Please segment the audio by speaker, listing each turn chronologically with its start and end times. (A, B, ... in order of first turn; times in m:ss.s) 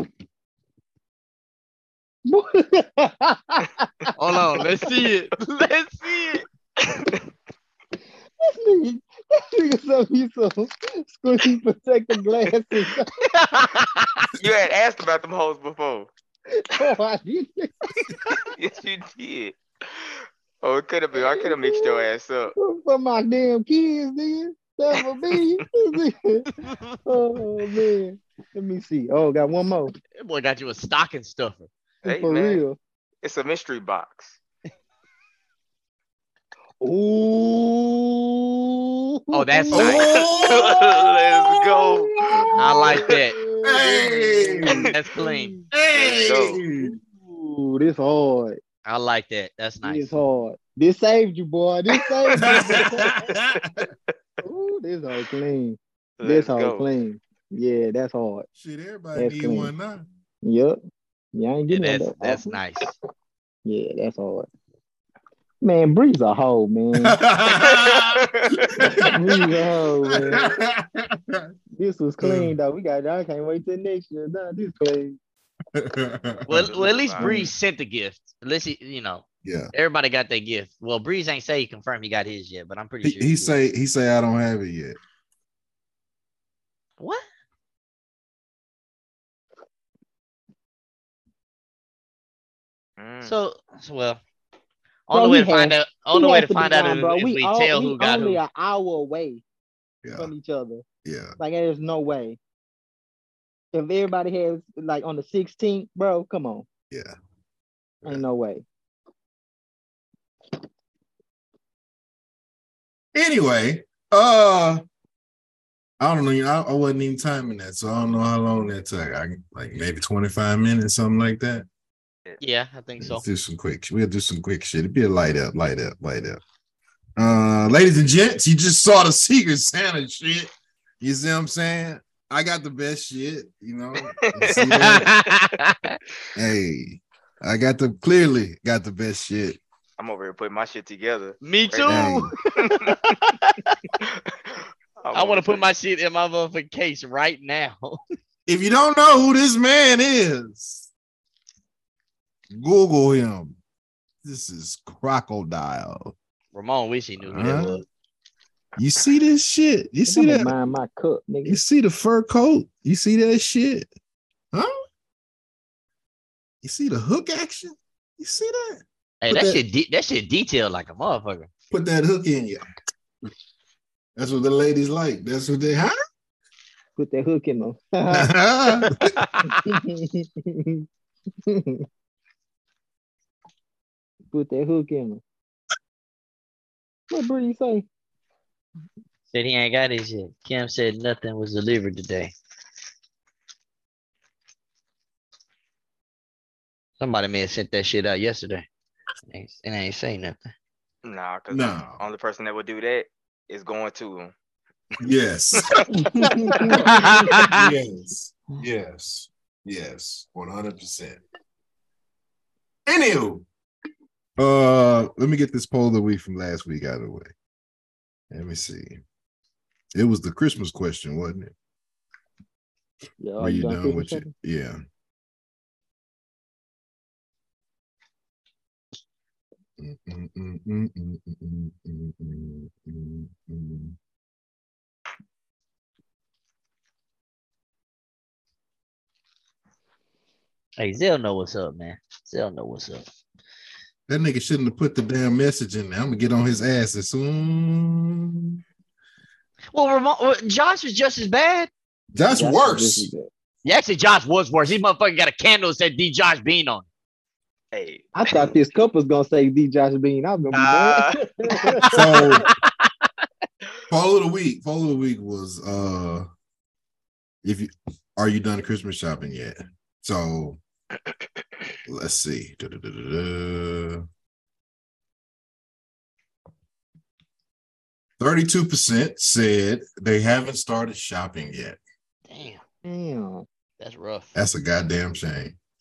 0:02.3-0:04.7 A
0:04.2-0:06.4 B
0:06.8-0:07.2 C
0:08.4-0:13.1 A
0:13.2-0:14.3 B
0:14.4-0:16.1 C
0:16.5-0:18.1 A
0:18.6-0:22.5 C
0:21.2-0:22.0 A
0:22.6-0:26.5 A
0:25.0-0:25.6 C
0:26.6-0:27.0 B
0:27.1-0:29.9 A
0:30.2-0:31.7 B
0:32.0-0:32.8 A
0:32.0-0:32.6 C
0:33.2-0:34.4 C
0:36.8-0:39.9 A
0:39.3-0:40.1 B
0:39.7-0:42.9 D
0:39.8-0:43.1 C
0:42.5-0:45.7 A
0:42.6-0:43.4 B
0:43.6-0:44.9 D
0:44.8-0:45.6 B
0:45.7-0:47.0 D
0:45.9-0:46.6 C
0:46.8-0:48.6 A
0:48.8-0:50.2 B
0:49.8-0:53.1 A
0:52.0-0:52.8 C
0:52.4-0:53.9 D
0:54.4-0:58.5 A
0:56.2-0:56.9 C
0:58.6-1:00.0 D
0:59.2-0:59.7 A
1:00.4-1:00.8 A
1:01.3-1:02.6 A
1:01.7-1:03.0 B
1:03.6-1:04.5 A
1:05.6-1:07.2 A
1:07.0-1:11.5 D
1:07.5-1:08.8 C
1:08.8-1:10.5 A
1:11.8-1:15.2 A
1:12.2-1:12.6 D
1:15.8-1:16.7 D
1:16.5-1:23.5 B
1:16.5-1:17.4 C
1:17.2-1:17.5 A
1:19.4-1:19.7 D
1:23.0-1:25.0 D
1:27.0-1:27.3 B
1:33.0-1:33.3 C
1:33.2-1:34.2 B
1:35.1-1:38.4 B
1:35.1-1:39.4 A
1:40.0-1:40.3 D
1:40.2-1:40.8 A
1:41.0-1:41.4 D
1:41.4-1:42.4 A
1:43.7-1:46.7 A
1:48.0-1:48.6 A
1:53.1-1:54.8 D
1:56.0-2:01.7 D
2:02.4-2:03.2 B
2:03.0-2:06.4 D
2:07.2-2:15.1 D
2:14.0-2:15.1 C
2:14.5-2:16.0 B
2:16.4-2:19.6 D
2:20.0-2:23.0 C
2:21.4-2:23.8 B
2:21.9-2:22.3 D
2:24.0-2:25.7 C
2:25.1-2:28.0 B
2:28.5-2:30.9 D
2:32.5-2:33.6 D
2:34.2-2:36.2 D
2:36.5-2:37.8 B
2:37.2-2:37.8 D
2:38.8-2:40.5 D
2:40.1-2:41.6 A
2:41.5-2:43.9 D
2:46.6-2:49.6 D
2:49.2-2:51.5 B
2:51.7-2:52.6 D
2:54.2-2:55.9 D
2:57.0-2:58.3 A
2:58.1-2:59.2 D
2:59.0-2:59.6 B
2:59.5-3:00.8 A
3:01.5-3:01.8 A
3:04.3-3:05.2 A
3:07.1-3:07.9 A
3:09.3-3:12.3 B
3:17.0-3:18.7 B
3:19.3-3:20.4 B
3:21.0-3:24.3 C
3:21.5-3:22.0 D
3:25.0-3:31.2 D
3:25.6-3:25.8 C
3:25.9-3:27.3 A
3:26.8-3:27.7 B
3:32.9-3:33.5 D
3:34.4-3:37.3 D
3:38.3-3:39.0 D
3:39.9-3:41.5 D
3:43.2-3:44.3 A
3:43.4-3:44.8 D
3:49.8-3:54.0 D
4:00.8-4:03.1 B
4:04.1-4:08.6 D
4:09.7-4:11.7 B
4:12.1-4:13.1 D
4:12.3-4:13.3 A
4:13.6-4:16.8 B
4:17.7-4:18.1 C
4:18.2-4:21.9 A
4:20.5-4:21.2 C
4:21.8-4:22.9 B
4:21.9-4:22.5 D
4:23.9-4:26.3 D
4:27.4-4:30.6 D
4:31.9-4:34.0 D
4:38.2-4:41.8 D
4:42.3-4:42.6 B
4:42.8-4:43.5 A
4:43.8-4:44.3 B
4:44.4-4:45.6 D